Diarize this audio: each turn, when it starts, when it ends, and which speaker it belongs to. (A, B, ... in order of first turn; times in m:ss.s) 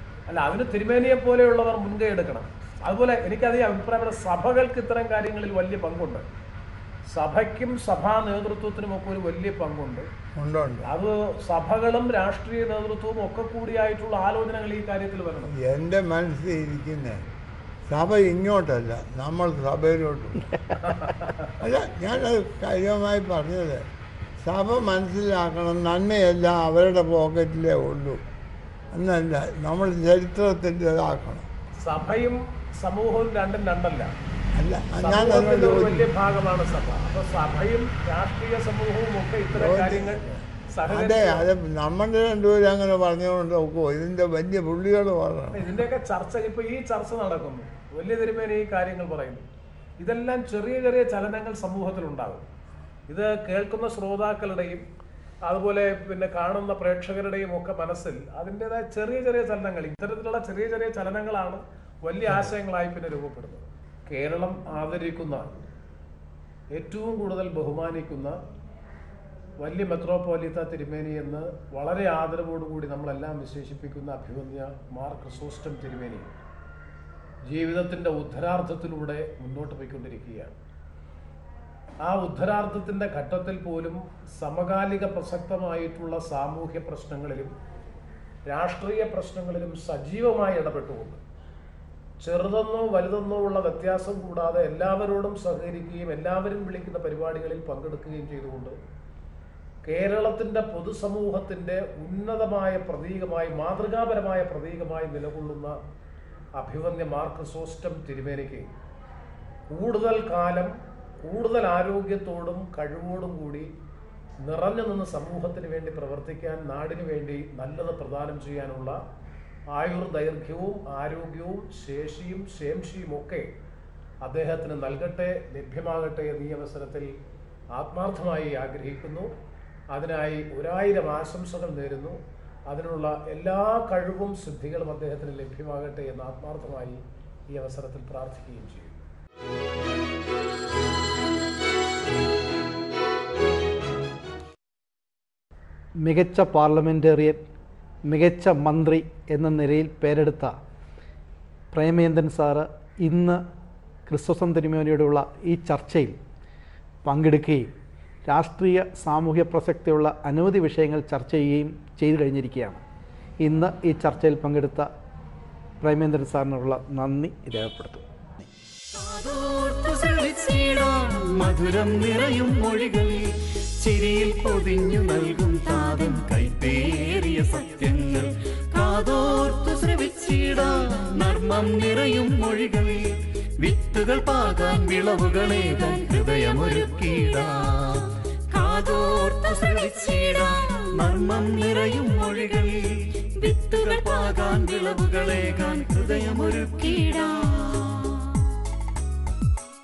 0:00.3-0:06.2 A
0:07.1-0:10.0 A
0:10.4-0:10.9 B
0:10.8-0:15.6 A
0:15.5-0:17.2 B
0:17.9-0:20.6 B
0:20.8-0:21.5 A
0:21.6-0:23.8 B
0:24.4-0:28.2 B
0:28.9-0:31.5 B
0:31.8-0:34.1 A
0:34.5-0:36.1 B
0:35.0-0:41.4 A
0:39.5-0:45.8 B
0:45.5-0:49.4 A
0:50.0-0:52.5 A
0:53.1-0:54.8 A
0:55.4-1:05.7 A
1:06.7-1:08.4 A
1:09.6-1:16.4 A
1:17.5-1:20.6 A
1:22.0-1:27.5 A
1:28.4-1:31.2 A
1:32.2-1:38.8 A
1:39.8-1:45.8 A
1:46.6-1:48.7 A
1:49.7-1:50.7 A
1:51.2-1:53.7 A
1:54.4-1:59.0 A
1:59.7-2:03.5 A
2:04.2-2:07.1 A
2:07.7-2:09.3 A
2:09.9-2:17.0 A
2:17.5-2:19.0 A
2:26.0-2:27.4 C
2:28.1-2:30.5 C
2:31.7-2:33.4 C
2:34.1-2:36.2 C
2:37.0-2:37.7 C
2:38.2-2:42.8 C
2:43.4-2:44.9 C
2:45.8-2:48.0 C
2:48.9-2:53.3 D
2:53.8-3:18.2 D